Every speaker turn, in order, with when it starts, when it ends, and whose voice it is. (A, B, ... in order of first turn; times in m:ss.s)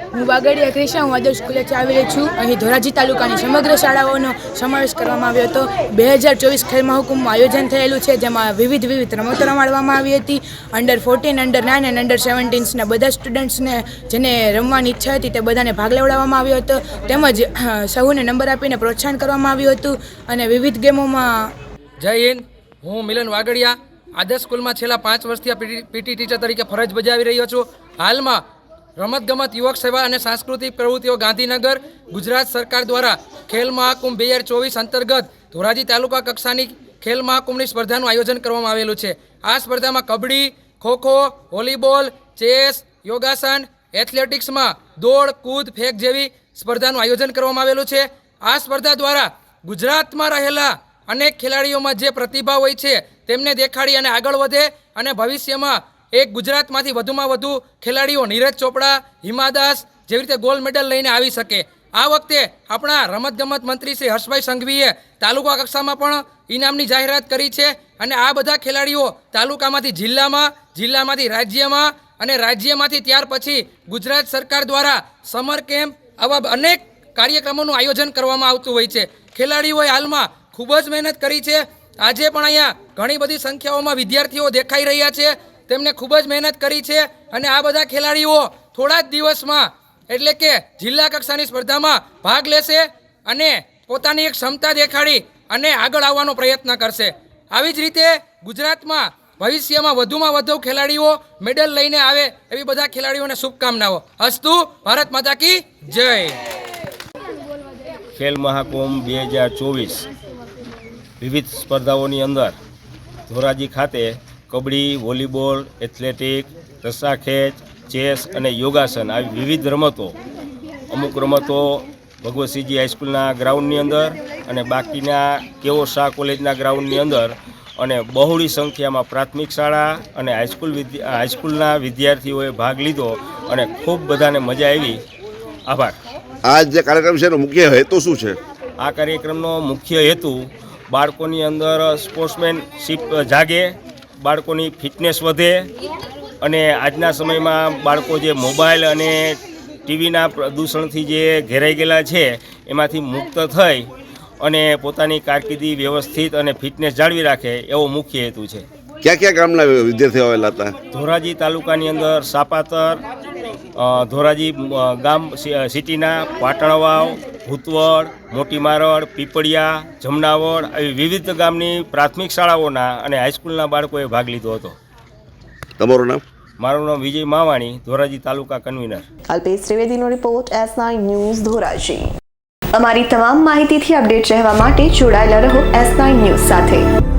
0:00.1-0:21.5 A
0:22.0-0:28.4 B
0:29.0-1:46.4 B
1:48.2-1:50.1 C
1:51.2-1:52.6 C
1:53.3-2:00.2 C
2:00.9-2:15.0 C
2:15.7-2:16.0 C
2:16.4-2:18.4 D
2:18.8-2:25.7 C
2:26.4-2:38.7 C
2:39.0-2:40.8 D
2:40.9-2:43.0 C
2:43.8-2:54.8 C
2:55.8-2:56.2 D
2:56.6-2:59.1 C
2:59.3-3:02.0 E
3:02.8-3:06.8 E